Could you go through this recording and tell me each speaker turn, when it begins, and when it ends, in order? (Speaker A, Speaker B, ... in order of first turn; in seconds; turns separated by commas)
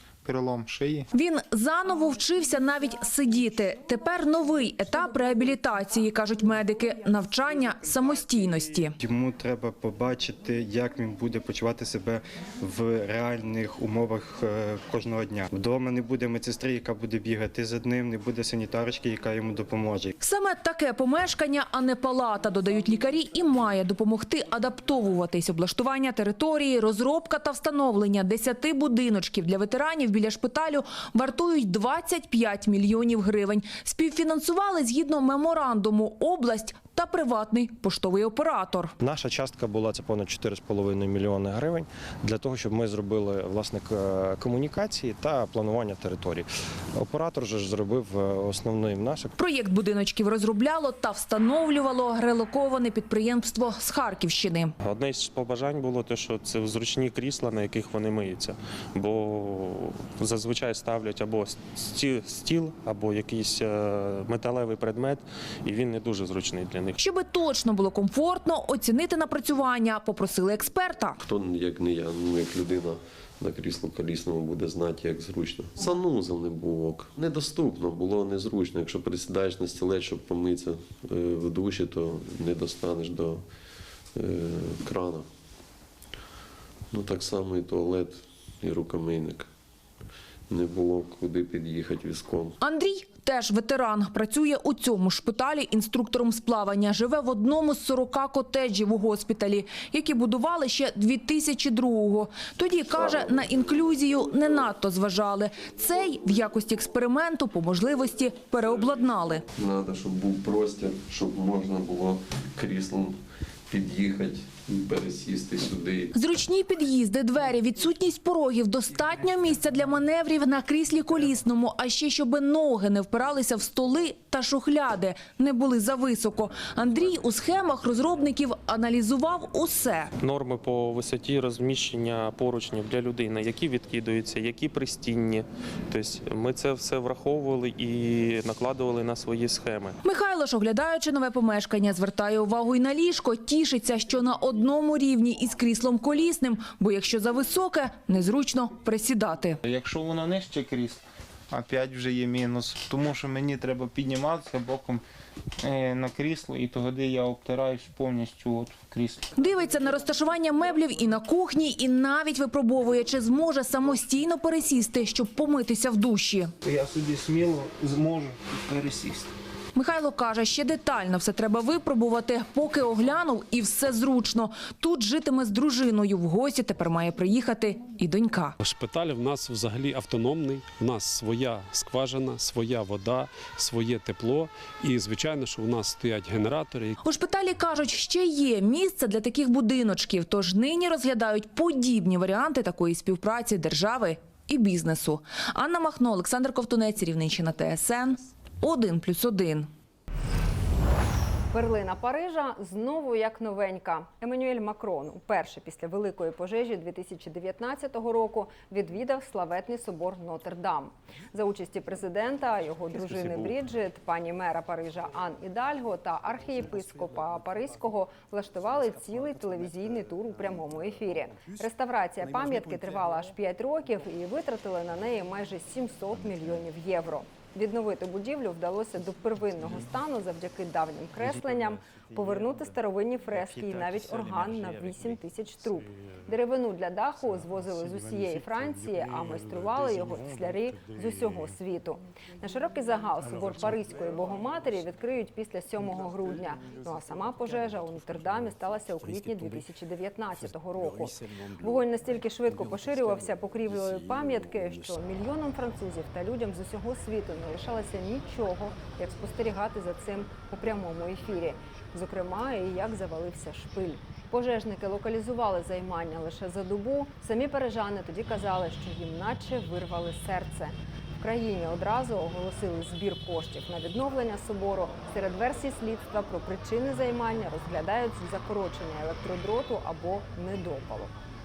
Speaker A: 0.2-1.1, Speaker B: 1.1-8.9, Speaker C: 9.0-20.1, Speaker B: 20.2-38.9, Speaker D: 39.0-49.3, Speaker B: 49.4-54.7, Speaker E: 54.8-67.0, Speaker B: 67.0-71.2, Speaker F: 71.2-83.4, Speaker F: 84.2-85.2, Speaker F: 86.9-89.5, Speaker F: 90.5-92.6, Speaker B: 92.6-109.4, Speaker F: 102.9-104.6, Speaker F: 105.8-106.2, Speaker F: 108.6-113.2, Speaker F: 113.7-116.1, Speaker B: 116.1-130.1, Speaker E: 130.2-140.0, Speaker B: 140.0-149.6, Speaker A: 149.6-155.0, Speaker A: 155.6-159.2, Speaker B: 159.3-166.5, Speaker A: 166.6-169.3, Speaker B: 169.7-178.5, Speaker G: 178.7-186.9, Speaker B: 187.0-199.7, Speaker H: 201.5-281.1